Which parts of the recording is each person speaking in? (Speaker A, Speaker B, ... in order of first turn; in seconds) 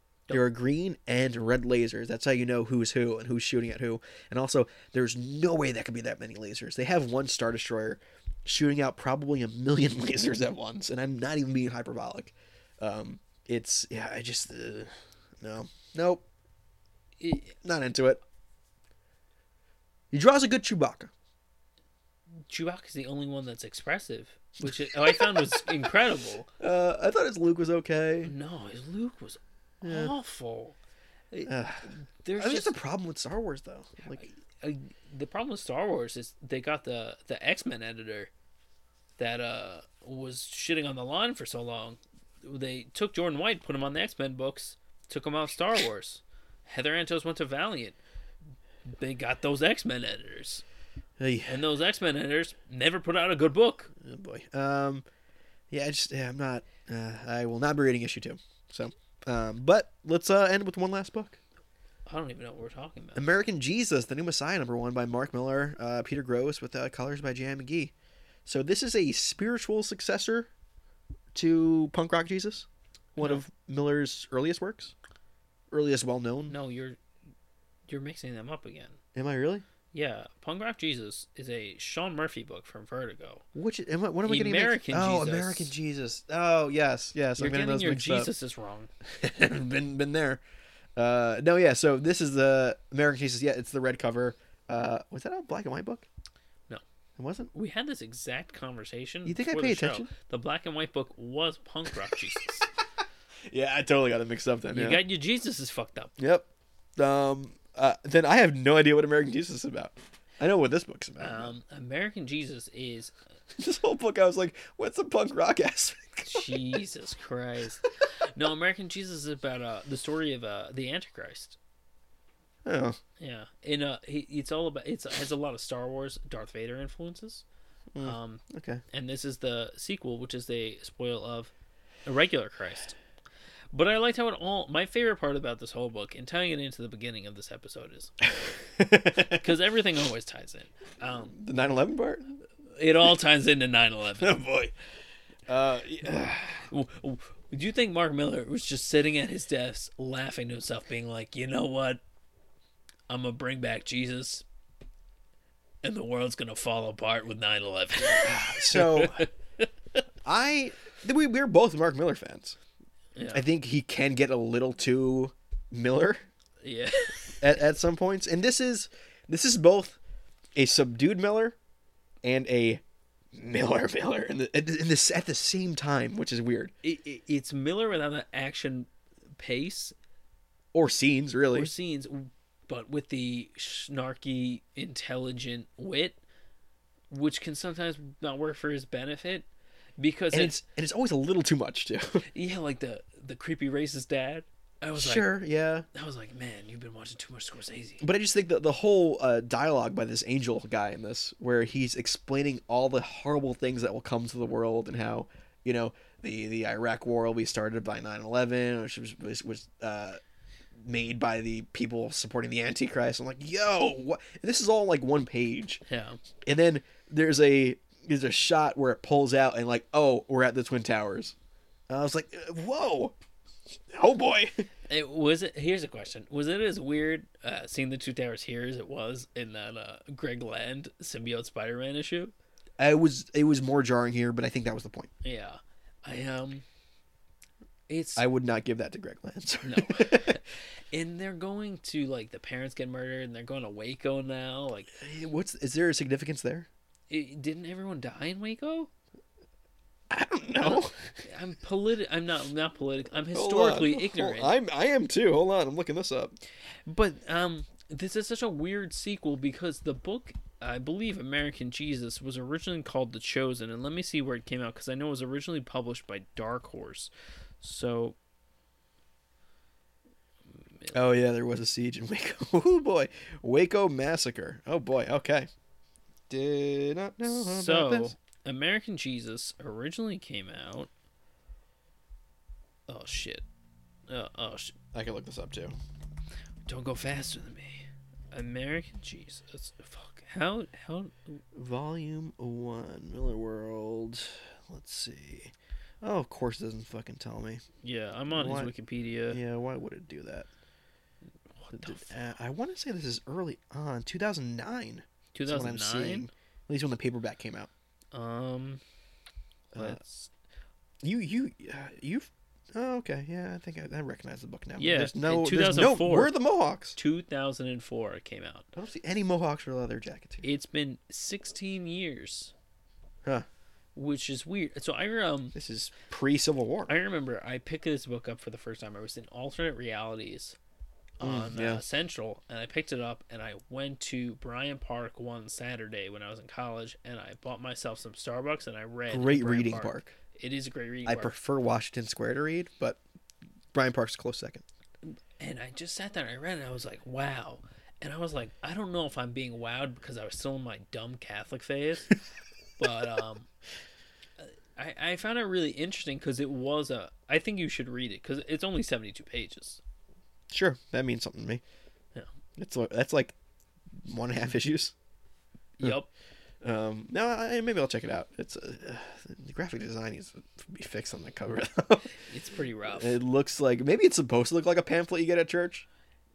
Speaker A: 0.3-16.2, 17.6-18.2, 20.1-21.1, 24.6-25.8, 26.6-28.3, 29.8-30.1, 31.4-34.3, 51.2-51.6, 54.0-55.0, 55.7-61.4, 63.1-67.9, 68.5-70.5, 71.3-74.9, 75.7-76.5, 79.1-79.6, 83.5-88.3, 89.0-90.4, 91.0-96.1, 97.2-97.5, 99.2-100.1, 103.5-105.0, 106.2-106.5, 107.0-111.5, 113.5-116.5, 122.6-123.0, 127.9-128.8, 138.4-139.4, 141.3-142.3, 144.2-144.7, 145.5-146.7, 158.0-159.3, 160.2-162.6, 163.3-166.2, 167.4-170.0, 170.6-171.6, 172.2-172.8, 173.3-176.7, 180.7-181.7, 190.3-192.2, 194.9-195.8, 198.0-210.2, 210.8-215.8, 216.4-221.3, 221.9-223.1, 223.9-224.7, 232.8-235.1, 238.2-240.4, 245.0-246.7, 250.1-250.9, 253.3-256.4, 270.9-275.5, 276.3-278.1, 284.9-285.8, 291.5-297.6, 298.3-298.7, 299.3-300.5, 301.7-307.7, 309.7-310.0, 311.0-317.0, 318.7-320.4, 325.5-326.9, 331.2-331.8, 339.1-340.1, 341.0-343.0, 343.7-344.6, 360.5-361.6, 362.6-363.3, 364.0-364.9, 366.6-372.2, 372.9-375.9
Speaker B: 17.2-17.6, 22.4-26.5, 28.2-30.8, 31.3-32.8, 34.1-38.3, 39.2-48.0, 48.8-50.6, 51.5-53.9, 62.0-63.3, 76.5-77.0, 77.9-79.0, 79.9-83.4, 84.2-85.7, 87.4-88.9, 97.5-102.7, 104.7-106.1, 111.2-113.1, 116.2-121.6, 123.2-127.4, 128.0-131.5, 132.0-132.9, 133.7-138.2, 139.2-141.4, 142.7-144.4, 146.7-152.0, 153.1-154.4, 155.8-160.0, 163.1-163.4, 166.6-167.4, 176.8-179.9, 181.5-186.2, 187.1-189.5, 190.0-190.6, 192.3-195.3, 195.9-198.0, 215.9-216.2, 224.9-232.3, 235.2-236.6, 237.9-238.2, 239.6-245.0, 247.1-248.9, 250.6-254.6, 256.9-268.2, 277.2-280.9, 282.9-283.4, 284.1-284.7, 286.6-291.4, 297.8-299.4, 301.6-302.1, 305.3-306.3, 308.1-308.8, 309.7-310.3, 314.8-316.3, 316.9-318.7, 320.4-322.5, 323.9-325.5, 326.9-330.6, 331.2-341.4, 345.0-352.1, 352.8-353.5, 354.4-359.8, 365.8-366.1, 372.2-373.2